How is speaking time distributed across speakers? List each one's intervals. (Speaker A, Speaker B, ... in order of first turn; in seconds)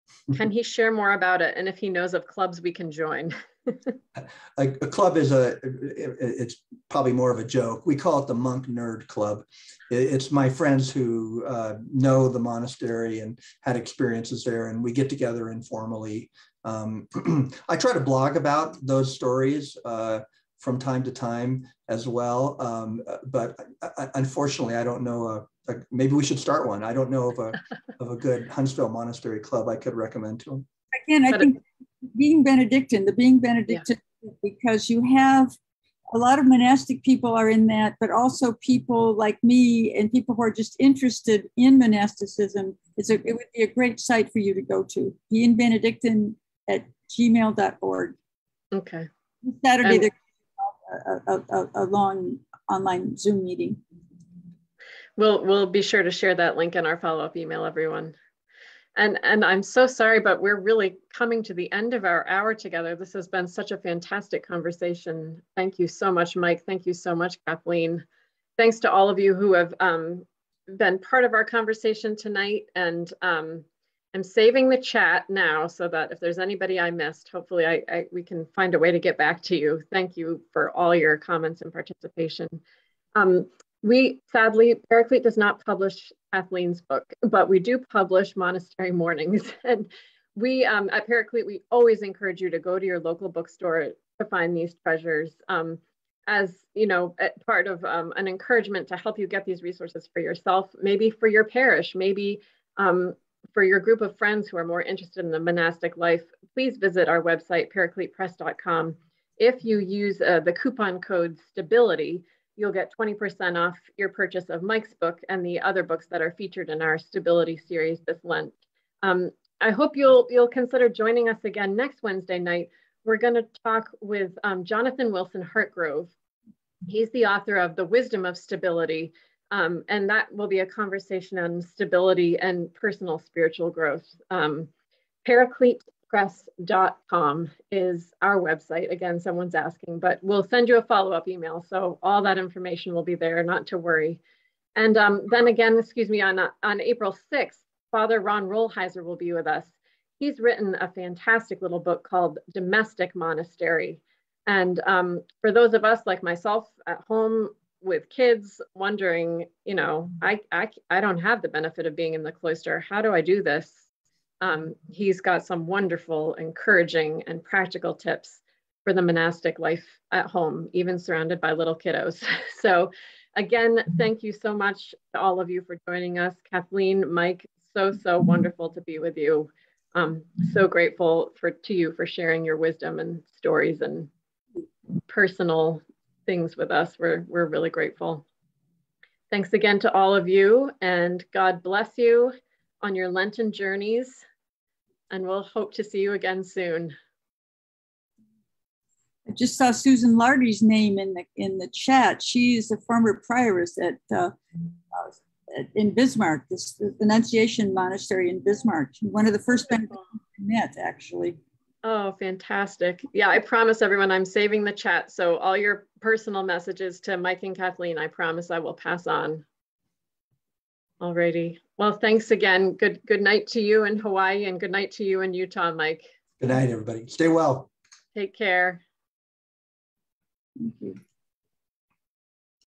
Speaker A: 0.3-3.9, 48.7-49.1, 55.2-58.1, 59.0-68.0, 68.6-82.6, 83.2-126.1, 126.9-134.7, 135.2-144.2, 144.8-163.8, 164.4-184.1, 185.1-188.2, 189.3-194.2, 195.1-196.9, 211.8-219.4, 221.0-226.1, 228.2-228.8
Speaker B: 4.2-30.7, 226.4-227.7
Speaker C: 31.0-35.6, 36.1-48.2, 49.4-53.8, 199.3-204.4, 204.9-211.4, 230.6-231.0